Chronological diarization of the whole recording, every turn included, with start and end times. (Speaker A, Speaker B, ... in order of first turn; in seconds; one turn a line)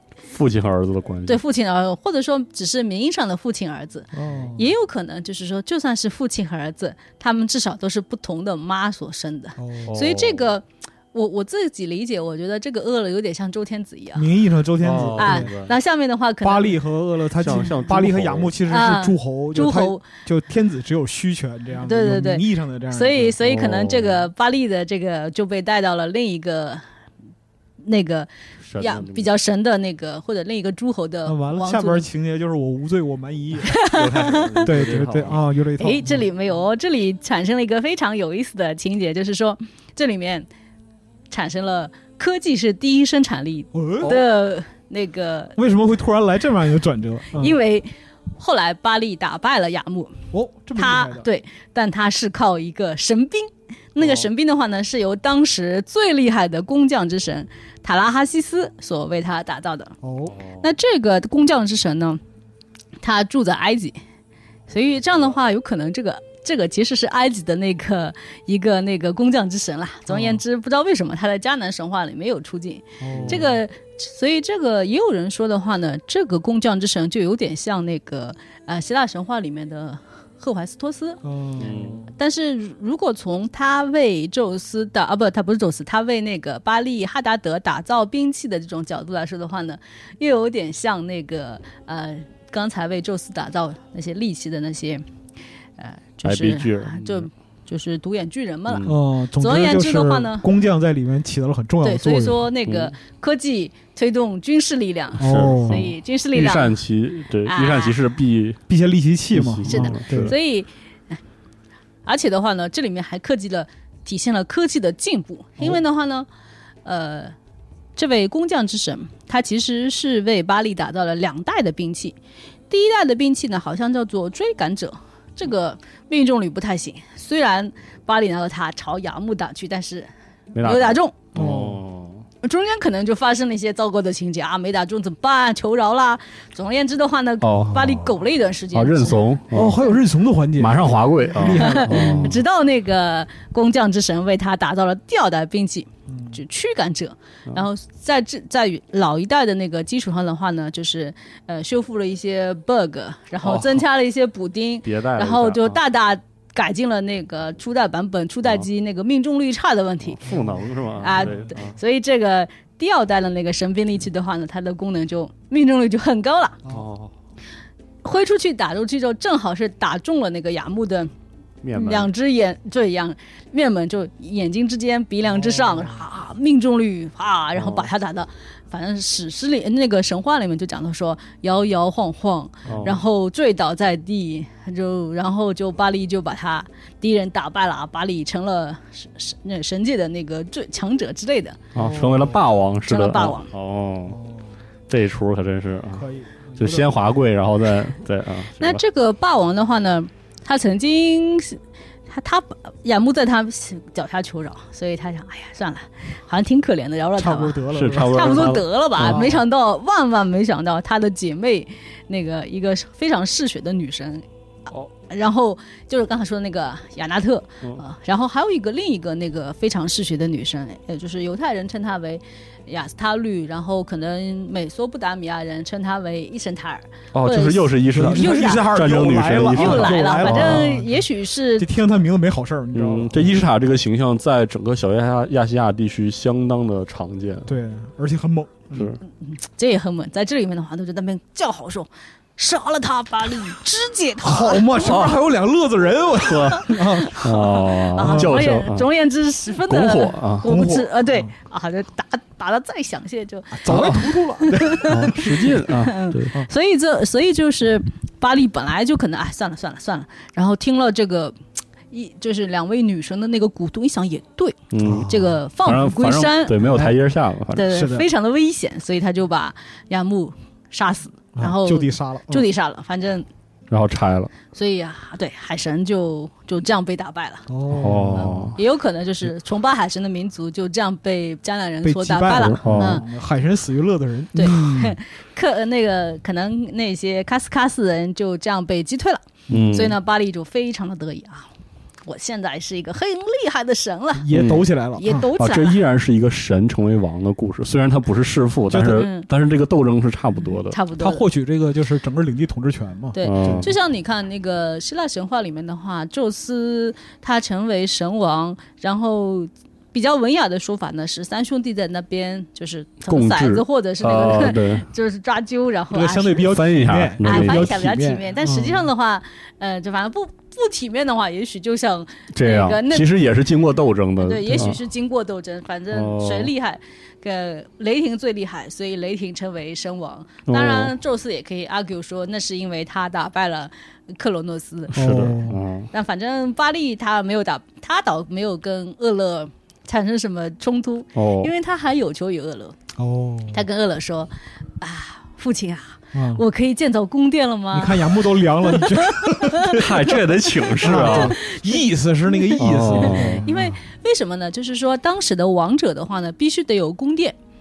Speaker A: 0.2-1.4
Speaker B: 1.2-14.3
Speaker C: 4.1-4.7
Speaker C: 9.6-10.0
Speaker A: 9.9-10.5
Speaker C: 14.1-15.5
Speaker A: 14.8-15.7
Speaker B: 15.2-16.8
Speaker C: 16.4-23.4
Speaker A: 17.4-18.5
Speaker B: 18.7-20.0
Speaker B: 21.8-26.8
Speaker A: 23.4-24.3
Speaker B: 27.8-32.0
Speaker A: 28.6-29.3
Speaker C: 31.2-33.8
Speaker B: 33.6-34.7
Speaker A: 33.8-35.4
Speaker C: 34.6-36.3
Speaker B: 35.8-40.5
Speaker B: 41.3-45.5
Speaker C: 43.7-44.2
Speaker C: 45.6-47.6
Speaker B: 47.3-50.2
Speaker C: 50.3-51.3
Speaker B: 50.8-59.9
Speaker A: 54.0-54.3
Speaker C: 60.0-60.4
Speaker A: 60.3-60.6
Speaker B: 60.6-62.2
Speaker B: 63.0-64.0
Speaker B: 64.7-81.2
Speaker C: 70.1-70.4
Speaker C: 73.0-73.6
Speaker A: 73.1-73.5
Speaker C: 81.2-82.1
Speaker A: 81.6-82.0
Speaker B: 82.2-95.0
Speaker B: 95.8-100.5
Speaker A: 96.2-97.3
Speaker A: 98.7-98.9
Speaker C: 98.8-102.5
Speaker B: 101.8-106.8
Speaker A: 102.7-102.9
Speaker A: 105.2-108.6
Speaker C: 105.2-105.9
Speaker B: 107.5-108.0
Speaker C: 108.7-110.3
Speaker A: 109.3-110.3
Speaker B: 109.7-111.2
Speaker B: 112.0-116.3
Speaker B: 116.8-117.3
Speaker B: 118.0-122.2
Speaker B: 122.7-131.2
Speaker A: 130.5-132.2
Speaker C: 131.3-131.8
Speaker B: 132.4-139.2
Speaker A: 137.4-138.1
Speaker A: 138.7-139.8
Speaker C: 139.5-142.4
Speaker A: 140.6-142.4
Speaker B: 141.5-160.4
Speaker C: 146.1-146.4
Speaker A: 153.4-153.8
Speaker A: 154.8-155.8
Speaker A: 160.1-161.8
Speaker C: 160.2-161.5
Speaker B: 161.0-166.6
Speaker A: 166.7-167.1
Speaker B: 168.0-171.1
Speaker A: 171.6-172.1
Speaker B: 171.7-191.6
Speaker C: 175.3-176.0
Speaker A: 177.6-177.9
Speaker A: 182.7-183.0
Speaker C: 182.7-182.9
Speaker A: 191.7-194.2
Speaker C: 191.7-192.4
Speaker B: 192.9-193.5
Speaker C: 194.1-194.5
Speaker A: 194.9-198.8
Speaker C: 195.9-196.9
Speaker B: 198.6-214.2
Speaker C: 207.2-209.4
Speaker A: 207.7-209.4
Speaker B: 215.0-228.8
Speaker A: 227.1-230.7
Speaker C: 227.9-233.4
Speaker B: 229.5-231.7
Speaker A: 232.7-237.5
Speaker C: 237.4-238.9
Speaker A: 238.7-239.0
Speaker B: 239.2-245.0
Speaker C: 244.2-247.2
Speaker A: 244.8-245.2
Speaker A: 246.2-248.9
Speaker B: 246.5-261.3
Speaker C: 248.0-248.3
Speaker A: 249.7-250.5
Speaker C: 250.4-251.3
Speaker C: 253.5-255.6
Speaker A: 253.7-254.0
Speaker A: 254.8-256.3
Speaker B: 261.9-266.6
Speaker A: 264.7-267.7
Speaker C: 264.8-265.3
Speaker C: 266.6-266.9
Speaker B: 267.5-273.2
Speaker C: 267.7-268.1
Speaker C: 271.4-272.4
Speaker A: 273.7-274.3
Speaker B: 274.5-277.5
Speaker C: 277.5-278.6
Speaker A: 277.7-278.6
Speaker B: 278.1-283.0
Speaker C: 281.8-285.0
Speaker A: 282.4-283.0
Speaker B: 284.3-291.5
Speaker C: 289.5-289.8
Speaker A: 289.5-289.9
Speaker B: 292.0-294.3
Speaker C: 294.1-295.3
Speaker A: 294.3-294.7
Speaker B: 294.9-295.8
Speaker A: 295.4-300.8
Speaker C: 298.7-299.1
Speaker B: 298.8-299.3
Speaker B: 300.7-301.2
Speaker C: 301.0-303.7
Speaker B: 303.1-316.6
Speaker A: 303.2-303.7
Speaker A: 313.1-314.9
Speaker C: 315.9-318.9
Speaker A: 316.4-317.8
Speaker B: 317.2-323.1
Speaker A: 322.3-324.8
Speaker B: 324.2-335.2
Speaker A: 325.9-326.5
Speaker A: 330.5-330.9
Speaker C: 334.9-335.6
Speaker A: 334.9-335.9
Speaker B: 335.9-342.8
Speaker A: 341.1-341.5
Speaker C: 342.9-343.6
Speaker B: 343.5-350.1
Speaker C: 346.1-346.4
Speaker C: 347.7-350.2
Speaker A: 349.6-351.4
Speaker B: 350.7-351.8
Speaker C: 350.8-353.8
Speaker A: 352.6-353.4
Speaker B: 353.0-357.4